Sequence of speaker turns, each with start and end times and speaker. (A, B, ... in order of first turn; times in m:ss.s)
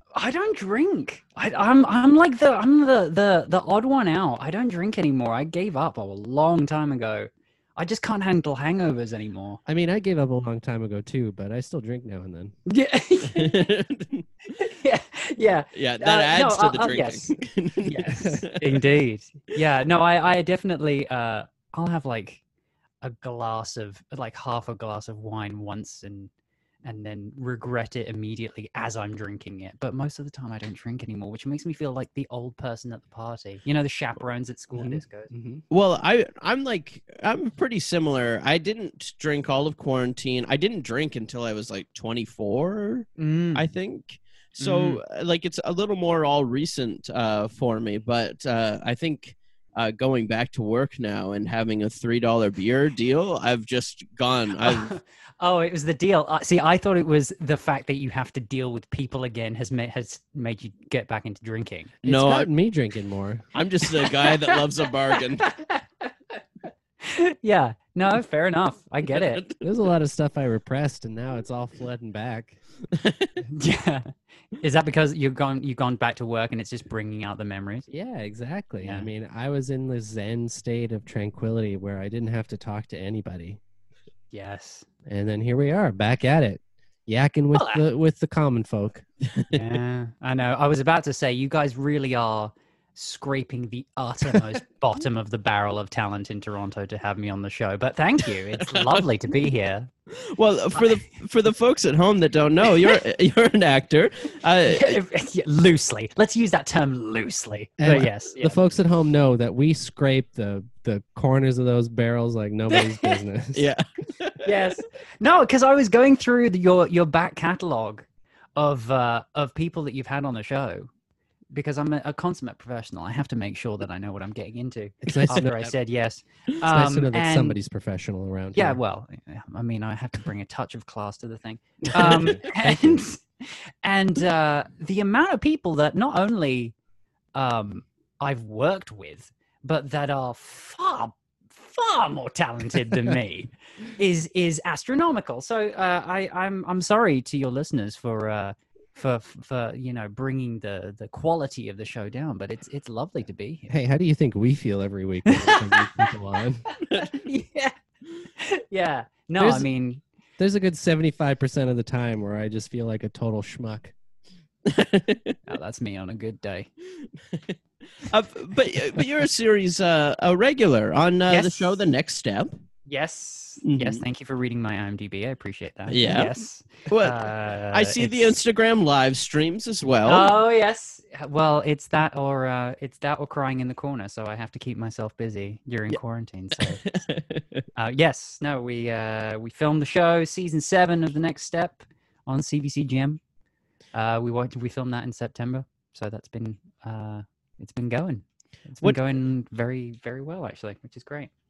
0:00.2-0:09.6 A
0:09.7-0:12.6 B
0:12.7-0:13.7 A
0:13.3-0:14.3 C
0:14.6-0:22.4 A
0:15.7-0:18.9 C
0:18.1-0:18.4 B
0:23.0-0:26.3 A
0:26.8-0:35.3 A
0:34.7-0:35.6 B
0:35.7-0:54.9 C
0:43.2-0:43.7 A
0:44.6-0:45.0 A
0:54.6-1:02.0 A
1:02.0-1:02.5 C
1:02.0-1:03.4 B
1:03.5-1:05.5 C
1:04.0-1:04.8 A
1:05.4-1:06.1 A
1:07.0-1:09.4 A
1:09.0-1:09.6 C
1:09.6-1:12.6 B
1:12.9-1:13.3 C
1:13.5-1:17.9 A
1:17.9-1:23.6 B
1:18.8-1:19.1 A
1:24.3-1:24.9 A
1:25.1-1:29.0 B
1:27.5-1:27.8 A
1:29.3-1:29.6 C
1:29.5-1:39.9 A
1:38.6-1:39.0 C
1:40.1-1:45.0 C
1:44.7-1:48.6 A
1:47.8-1:53.6 B
1:52.7-1:53.2 A
1:53.5-1:54.5 C
1:54.4-1:58.0 A
1:58.6-2:00.9 A
2:01.5-2:07.6 A
2:05.0-2:05.7 B
2:06.7-2:08.8 B
2:08.6-2:16.7 A
2:12.0-2:13.0 B
2:17.4-2:33.7 A
2:33.7-2:36.6 B
2:35.3-2:36.2 A
2:36.7-2:37.8 A
2:38.4-2:40.0 A
2:39.4-2:39.7 B
2:40.4-2:43.9 B
2:44.6-2:45.4 C
2:45.5-2:46.7 A
2:47.3-2:52.6 C
2:51.3-2:51.8 A
2:52.9-2:58.4 A
2:53.6-2:54.0 C
2:55.9-2:56.4 C
2:56.9-3:00.3 C
3:00.0-3:06.8 A
3:06.6-3:07.6 C
3:07.8-3:13.2 A
3:13.9-3:21.3 A